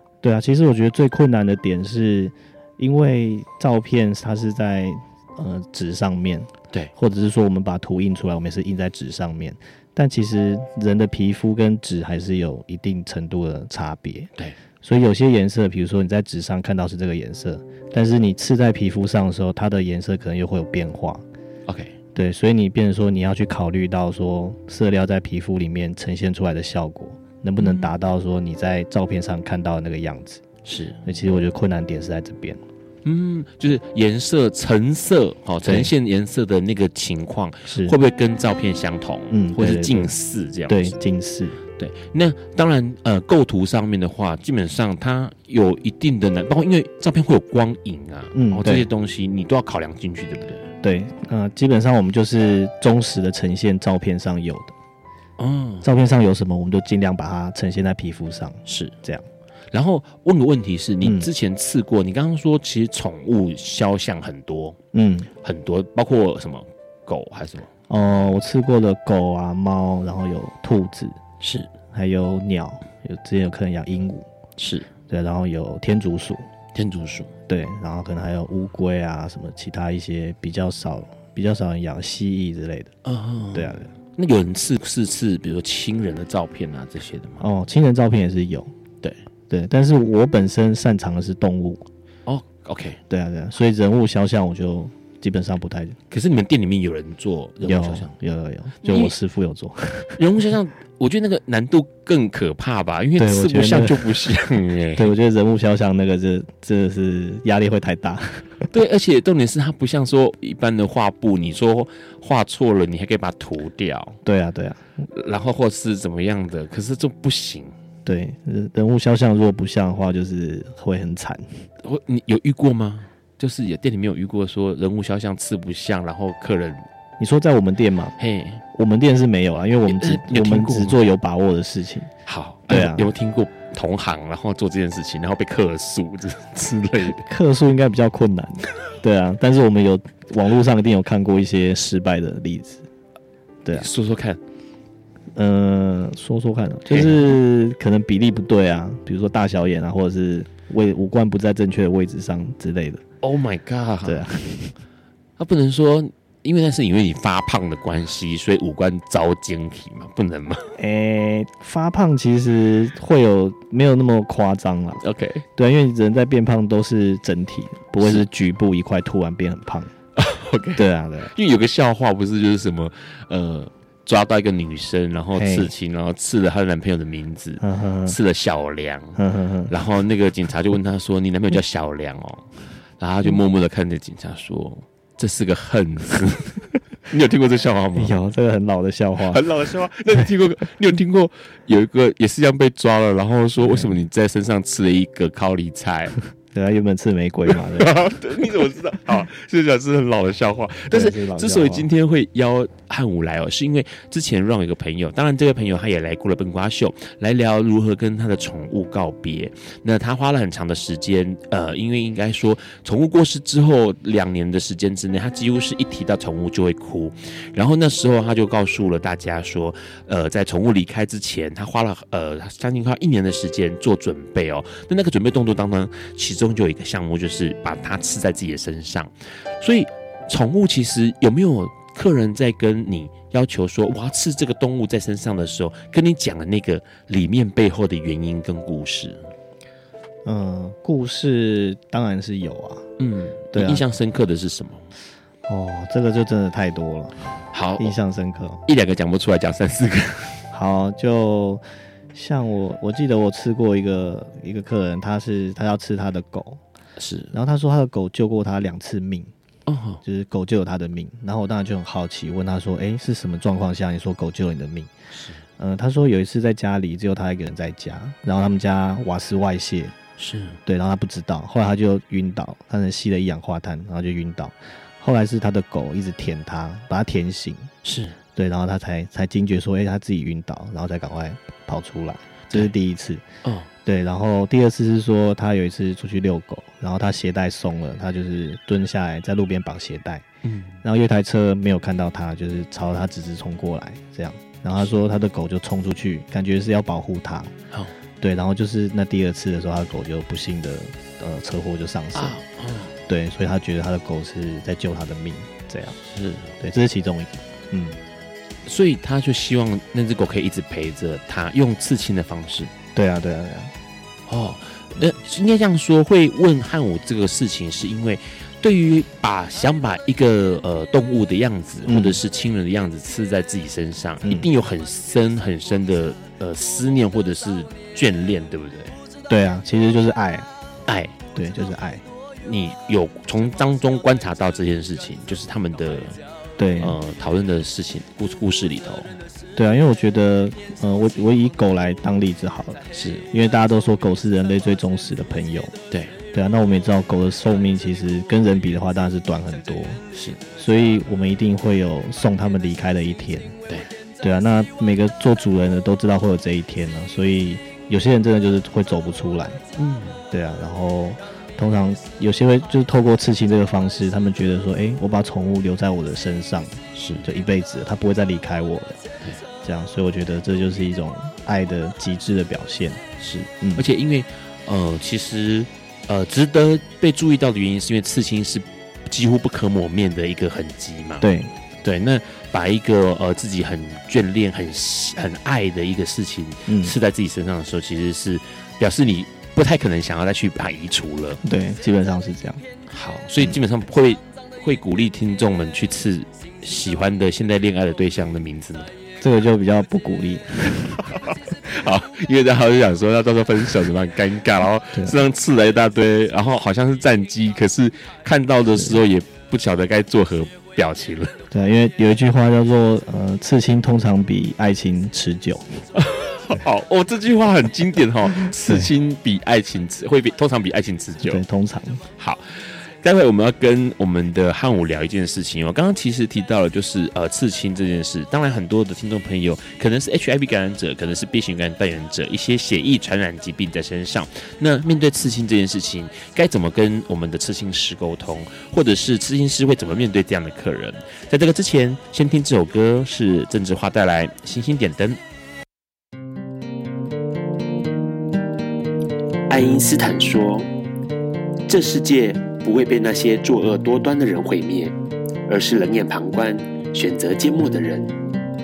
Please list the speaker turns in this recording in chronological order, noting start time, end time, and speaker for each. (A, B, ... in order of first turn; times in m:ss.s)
0:00.2-0:21.2 A
0:21.7-0:22.0 B
0:22.2-0:30.4 A
0:27.6-0:27.9 B
0:30.6-0:31.0 B
0:31.0-0:32.6 A
0:33.0-0:41.0 B
0:35.6-0:35.9 A
0:37.7-0:38.0 A
0:39.3-0:40.2 A
0:40.7-0:41.6 A
0:41.8-0:50.7 B
0:48.3-0:48.9 A
0:50.8-0:54.7 A
0:55.4-0:55.9 B
0:55.8-0:59.3 A
0:58.7-0:58.9 B
0:59.7-1:04.8 B
1:01.0-1:01.3 A
1:04.9-1:05.3 A
1:05.4-1:07.7 B
1:07.9-1:11.2 A
1:11.4-1:11.7 B
1:11.9-1:14.3 A
1:14.6-1:14.9 B
1:15.1-1:16.5 A
1:16.7-1:17.3 B
1:17.5-1:22.9 A
1:23.0-1:27.4 B
1:23.5-1:23.9 A
1:27.4-1:28.7 A
1:29.5-1:31.8 A
1:32.3-1:33.0 B
1:33.1-1:36.0 A
1:36.1-1:38.1 B
1:37.6-1:40.2 A
1:38.8-1:39.1 B
1:40.2-1:45.1 B
1:43.2-1:44.3 A
1:45.0-1:48.7 A
1:48.7-1:54.2 B
1:54.2-1:54.8 A
1:55.1-1:57.7 B
1:58.0-2:01.7 A
2:01.8-2:06.8 B
2:07.2-2:08.2 A
2:08.2-2:08.6 B
2:08.7-2:12.1 A
2:09.9-2:11.0 B
2:12.3-2:17.3 B
2:12.7-2:13.1 A
2:17.2-2:22.8 A
2:23.6-2:23.9 A
2:23.8-2:24.4 B
2:25.4-2:33.0 A
2:26.9-2:27.3 B
2:33.2-2:34.3 B
2:34.0-2:34.8 A
2:35.4-2:40.7 B
2:40.8-2:45.0 A
2:45.0-2:45.4 B
2:45.6-2:49.9 A
2:50.2-3:02.5 B
2:50.8-2:51.3 A
2:55.4-2:55.7 A
2:57.6-2:58.2 A
2:59.2-2:59.7 A
3:03.0-3:08.2 B
3:08.0-3:09.4 A
3:09.2-3:16.2 B
3:13.6-3:13.9 A
3:16.5-3:18.0 A
3:17.5-3:59.3 B
3:20.9-3:21.9 A
4:00.2-4:02.9 A
4:03.0-4:04.9 B
4:03.5-4:03.8 A
4:05.5-4:08.6 A
4:07.5-4:07.9 B
4:08.7-4:10.4 B
4:10.5-4:11.6 A
4:12.1-4:16.6 A
4:17.0-4:17.3 B
4:17.3-4:19.3 A
4:19.7-4:20.0 B
4:20.0-4:24.9 A
4:25.1-4:25.4 B
4:25.6-4:30.0 A
4:30.2-4:30.6 B
4:30.7-4:37.7 A
4:37.8-4:38.2 B
4:38.4-4:43.2 A
4:43.4-4:43.7 B
4:43.8-4:50.2 A
4:50.4-4:50.8 B
4:50.8-4:57.5 A
4:58.2-5:02.4 A
5:02.2-5:02.9 B
5:03.1-5:06.0 A
5:06.0-5:06.5 B
5:06.6-5:08.0 A
5:08.7-5:12.7 B
5:13.0-5:13.7 A
5:14.3-5:29.0 B
5:21.8-5:22.2 A
5:29.3-5:30.5 A
5:30.9-5:31.2 B
5:31.3-5:32.0 A
5:32.4-5:36.2 B
5:36.6-5:37.0 A
5:36.8-5:39.2 B
5:39.6-5:45.8 A
5:42.9-5:43.3 B
5:45.9-5:46.2 B
5:46.3-5:50.0 A
5:50.1-5:50.4 B
5:50.6-5:53.6 A
5:54.2-5:59.6 A
5:59.8-6:00.2 B
6:00.3-6:09.0 A
6:06.9-6:07.3 B
6:09.6-6:13.0 A
6:13.2-6:21.3 B
6:13.6-6:13.8 A
6:21.2-6:21.5 A
6:21.8-6:31.4 B
6:26.7-6:27.0 A
6:31.4-6:32.6 A
6:32.9-6:38.9 B
6:39.2-6:41.0 A
6:41.1-6:51.4 B
6:51.5-6:55.8 A
6:56.0-7:01.4 B
6:58.6-6:58.9 A
7:01.2-7:02.0 A
7:02.2-7:25.2 B
7:29.5-7:30.7 C
7:31.7-7:35.0 C
7:35.5-7:38.1 C